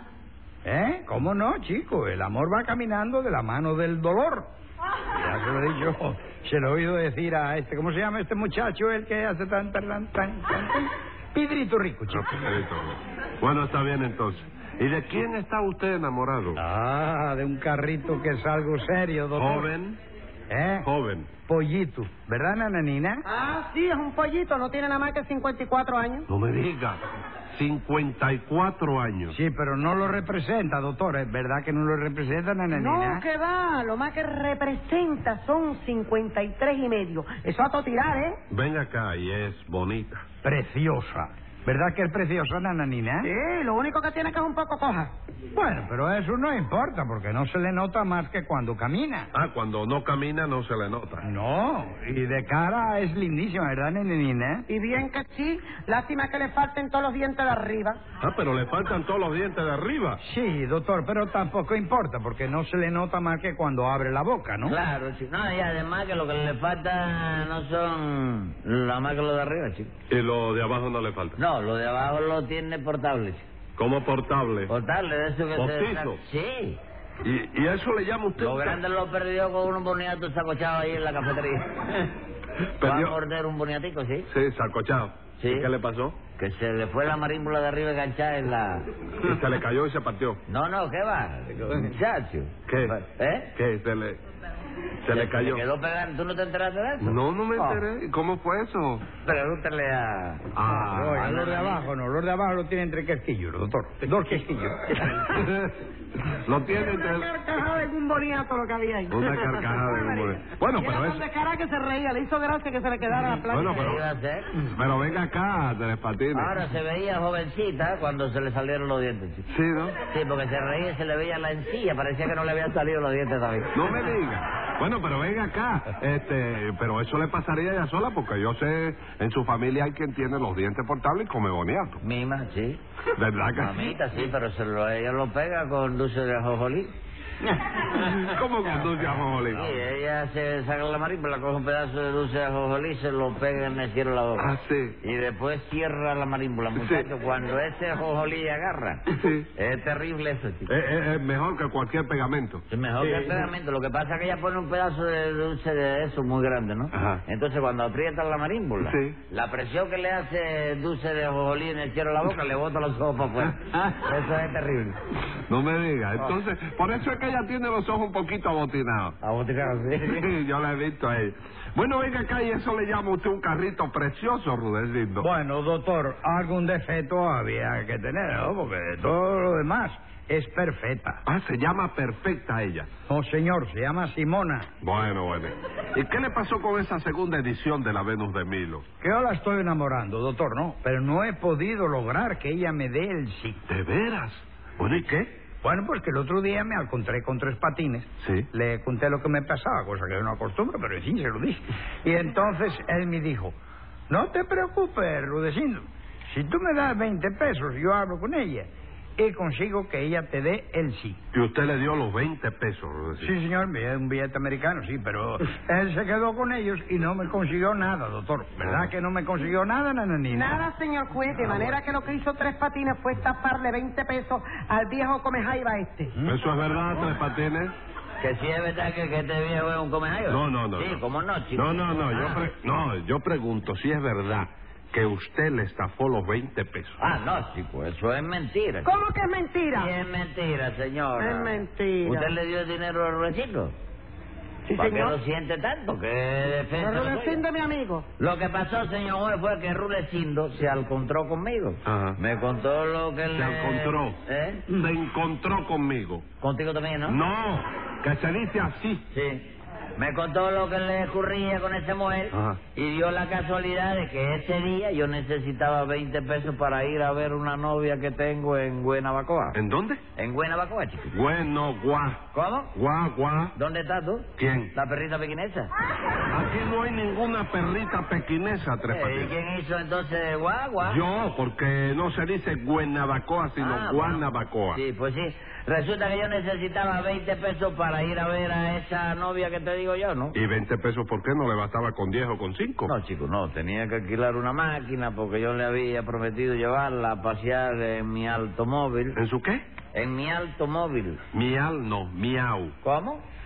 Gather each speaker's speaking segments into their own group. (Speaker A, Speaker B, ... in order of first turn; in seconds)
Speaker A: 0.6-4.5, 5.2-12.5, 16.6-19.7, 20.5-20.9, 21.5-23.2, 29.3-33.2, 40.4-43.3, 45.5-49.3, 51.2-54.7, 60.2-64.8, 100.7-105.0, 175.2-181.2, 183.1-184.7, 189.0-193.6, 195.6-203.5, 204.1-211.2, 213.2-220.6
Speaker B: 12.1-16.6, 19.3-20.0, 20.8-21.3, 26.3-27.0, 27.5-29.4, 38.5-40.2, 49.3-51.2, 58.2-60.2, 70.1-71.4, 73.8-74.7, 75.5-76.2, 77.2-78.8, 82.8-83.1, 84.3-86.2, 89.2-90.4, 92.7-92.9, 93.5-94.2, 95.0-95.6, 97.0-99.0, 100.5-101.2, 105.2-107.3, 109.1-111.2, 113.5-114.0, 114.7-116.5, 119.5-120.0, 123.7-132.0, 133.1-134.0, 137.8-139.8, 144.4-145.0, 146.7-147.1, 149.1-149.5, 150.7-153.2, 156.9-157.2, 158.8-159.2, 163.4-163.8, 165.5-169.2, 170.0-175.3, 181.2-182.9, 184.8-188.8, 193.7-195.3, 198.2-198.5, 211.3-213.3, 218.6-218.9, 226.2-227.7, 230.3-231.0, 231.5-237.0, 251.8-252.2, 253.3-254.2, 254.7-256.2, 257.1-259.0, 262.3-262.6, 269.5-270.0, 271.1-272.2, 272.7-273.5, 274.4-274.7, 276.3-279.3, 280.8-284.8, 290.3-292.9, 299.1-299.6, 301.3-302.7
Speaker C: 23.3-26.3, 32.7-38.4, 43.2-45.1, 54.7-58.0, 106.7-114.0, 220.3-226.1, 238.8-239.9, 241.2-242.3, 244.7-245.2, 246.8-248.1
Speaker D: 64.6-69.9, 71.4-73.5, 74.7-76.8, 78.4-81.9, 82.8-84.3, 85.4-85.7, 86.4-88.9, 90.5-93.5, 95.1-97.8, 99.2-101.8, 113.7-114.5, 116.3-119.4, 120.1-123.7, 132.0-132.8, 133.5-136.9, 139.5-144.5, 145.0-149.0, 149.5-150.7, 152.7-164.9, 169.2-170.3, 228.2-232.4, 237.0-238.9, 239.7-243.7, 244.7-247.4, 248.2-254.6, 256.4-257.2, 259.1-269.6, 270.2-271.1, 272.3-272.7, 273.5-275.7, 278.9-281.0, 283.6-290.4, 292.9-299.2, 299.9-301.2, 302.8-303.2